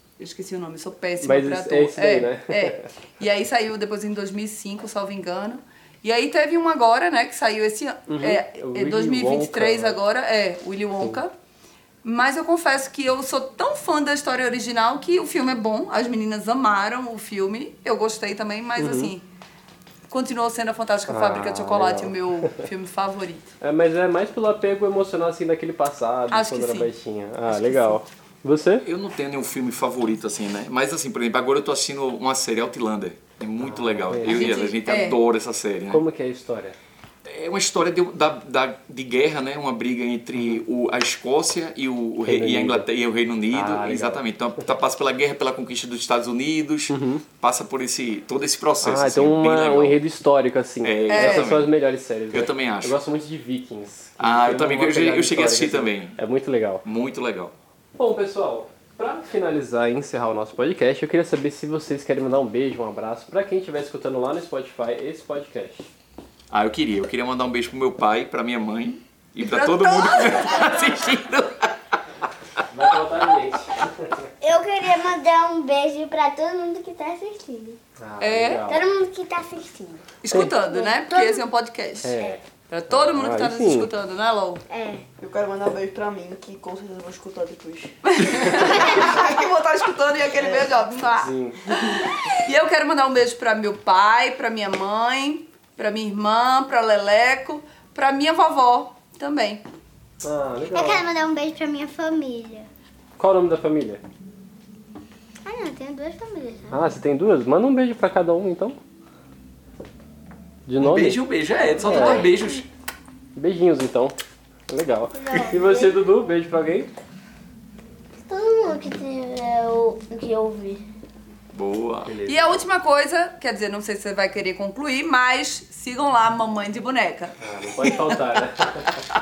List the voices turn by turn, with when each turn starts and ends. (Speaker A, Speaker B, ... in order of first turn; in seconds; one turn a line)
Speaker A: 0.2-11.3
Speaker B: 1.2-2.9
Speaker B: 8.1-10.0
Speaker A: 12.0-19.2
Speaker B: 18.8-19.1
Speaker A: 20.1-23.5
Speaker B: 21.1-22.1
Speaker B: 23.6-28.9
Speaker A: 26.3-26.9
Speaker A: 27.5-28.0
Speaker C: 28.8-36.0
Speaker B: 33.6-34.5
Speaker A: 34.2-35.2
Speaker B: 35.9-36.8
Speaker C: 37.2-50.0
Speaker B: 42.2-42.9
Speaker B: 43.5-44.2
Speaker B: 46.9-47.2
Speaker B: 48.8-56.8
Speaker C: 50.8-53.0
Speaker A: 51.1-51.5
Speaker C: 54.2-56.2
Speaker C: 56.8-57.5
Speaker B: 58.0-65.9
Speaker C: 66.5-72.0
Speaker A: 69.4-70.8
Speaker B: 72.7-74.2
Speaker D: 74.4-77.8
Speaker B: 78.0-78.9
Speaker A: 78.2-78.6
Speaker D: 78.7-80.0
Speaker A: 80.2-82.1
Speaker B: 80.3-80.5
Speaker D: 80.7-81.4
Speaker B: 82.0-83.9
Speaker A: 82.7-84.6
Speaker D: 84.7-85.1
Speaker E: 85.2-87.9
Speaker A: 88.1-91.3
Speaker E: 90.3-90.7
Speaker B: 91.2-91.9
Speaker A: 92.3-99.6
Speaker B: 100.2-101.0
Speaker F: 100.7-102.7
Speaker B: 103.2-104.0
Speaker F: 105.4-106.8
Speaker B: 106.7-108.8
Speaker B: 110.7-111.2
Speaker C: 110.8-112.7
Speaker B: 111.8-112.3
Speaker B: 113.3-114.2
Speaker B: 114.7-116.9
Speaker F: 115.1-115.5
Speaker D: 115.5-115.9
Speaker D: 118.3-120.8
Speaker C: 121.5-122.1
Speaker B: 122.0-122.6
Speaker A: 122.3-127.3
Speaker B: 127.4-128.9